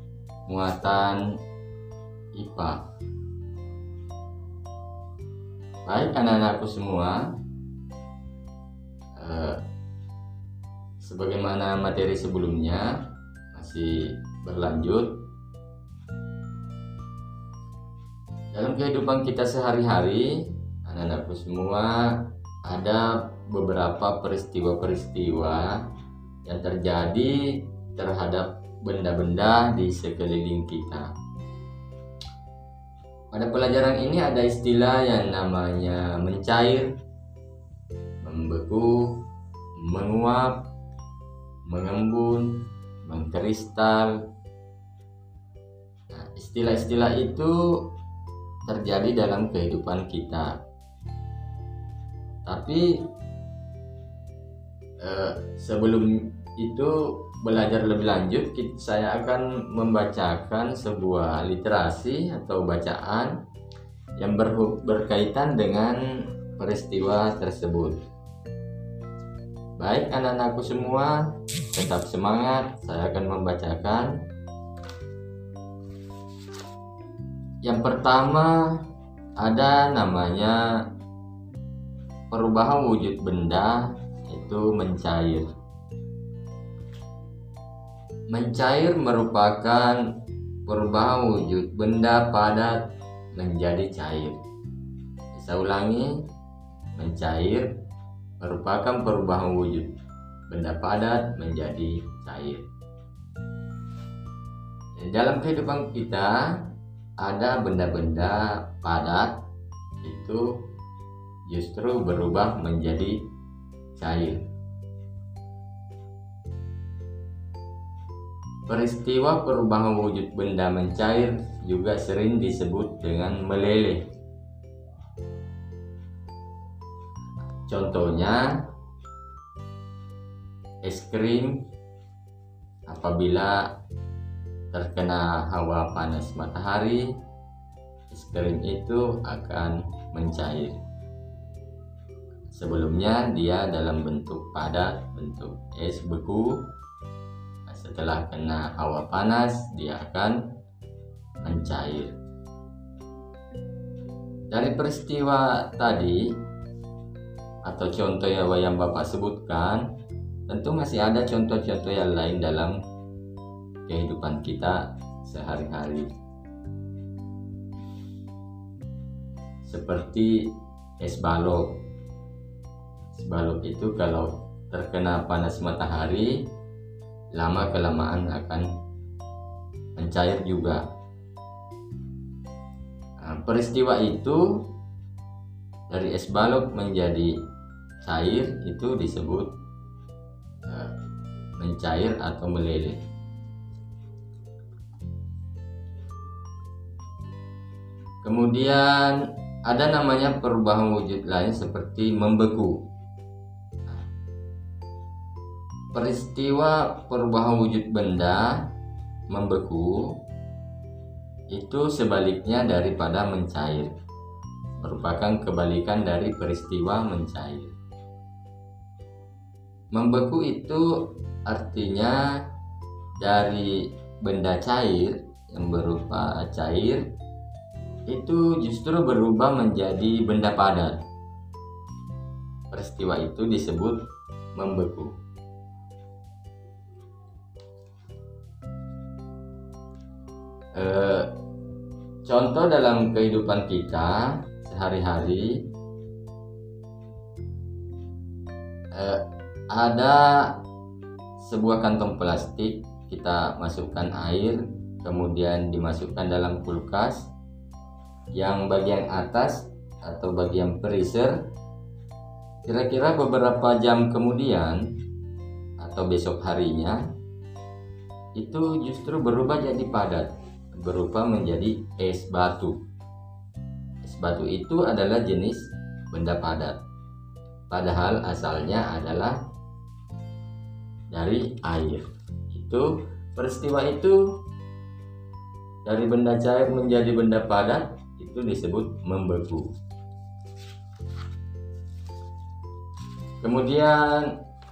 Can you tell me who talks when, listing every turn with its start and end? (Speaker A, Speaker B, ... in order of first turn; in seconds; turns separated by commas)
Speaker A: 0.5-1.2, Speaker A: 2.3-2.9, Speaker A: 5.8-7.2, Speaker A: 9.1-9.6, Speaker A: 11.0-12.9, Speaker A: 13.5-15.2, Speaker A: 18.5-25.8, Speaker A: 26.4-31.1, Speaker A: 33.3-36.9, Speaker A: 38.2-39.2, Speaker A: 39.8-40.7, Speaker A: 41.7-44.1, Speaker A: 46.1-47.9, Speaker A: 48.6-50.6, Speaker A: 52.5-52.9, Speaker A: 55.0-63.4, Speaker A: 64.2-66.0, Speaker A: 66.5-68.0, Speaker A: 69.8-71.1, Speaker A: 71.7-74.2, Speaker A: 77.6-78.8, Speaker A: 79.4-80.6, Speaker A: 82.3-85.5, Speaker A: 88.3-90.0, Speaker A: 90.7-94.4, Speaker A: 95.3-96.2, Speaker A: 97.0-97.7, Speaker A: 98.4-100.0, Speaker A: 100.5-102.7, Speaker A: 105.0-106.3, Speaker A: 107.2-109.4, Speaker A: 110.0-110.7, Speaker A: 111.5-113.3, Speaker A: 114.0-114.5, Speaker A: 118.7-124.1, Speaker A: 127.7-128.4, Speaker A: 130.8-131.7, Speaker A: 132.9-133.6, Speaker A: 134.7-137.1, Speaker A: 138.1-140.8, Speaker A: 142.5-146.7, Speaker A: 147.7-150.4, Speaker A: 151.4-152.1, Speaker A: 154.5-156.4, Speaker A: 157.7-159.9, Speaker A: 160.5-162.8, Speaker A: 163.9-166.1, Speaker A: 169.6-171.8, Speaker A: 173.1-176.5, Speaker A: 177.3-178.7, Speaker A: 180.0-180.8, Speaker A: 183.2-184.7, Speaker A: 185.9-187.4, Speaker A: 188.0-189.6, Speaker A: 190.6-190.9, Speaker A: 191.6-193.0, Speaker A: 198.2-202.9, Speaker A: 205.9-208.7, Speaker A: 209.3-210.2, Speaker A: 211.5-213.9, Speaker A: 214.8-217.7, Speaker A: 219.9-222.2, Speaker A: 223.2-227.0, Speaker A: 228.1-231.1, Speaker A: 232.7-235.1, Speaker A: 240.7-241.3, Speaker A: 242.2-245.7, Speaker A: 248.9-250.6, Speaker A: 251.4-257.3, Speaker A: 258.3-261.5, Speaker A: 262.6-264.9, Speaker A: 265.8-267.1, Speaker A: 268.4-272.8, Speaker A: 274.0-276.8, Speaker A: 277.7-279.4, Speaker A: 281.1-284.4, Speaker A: 285.8-289.7, Speaker A: 293.4-294.4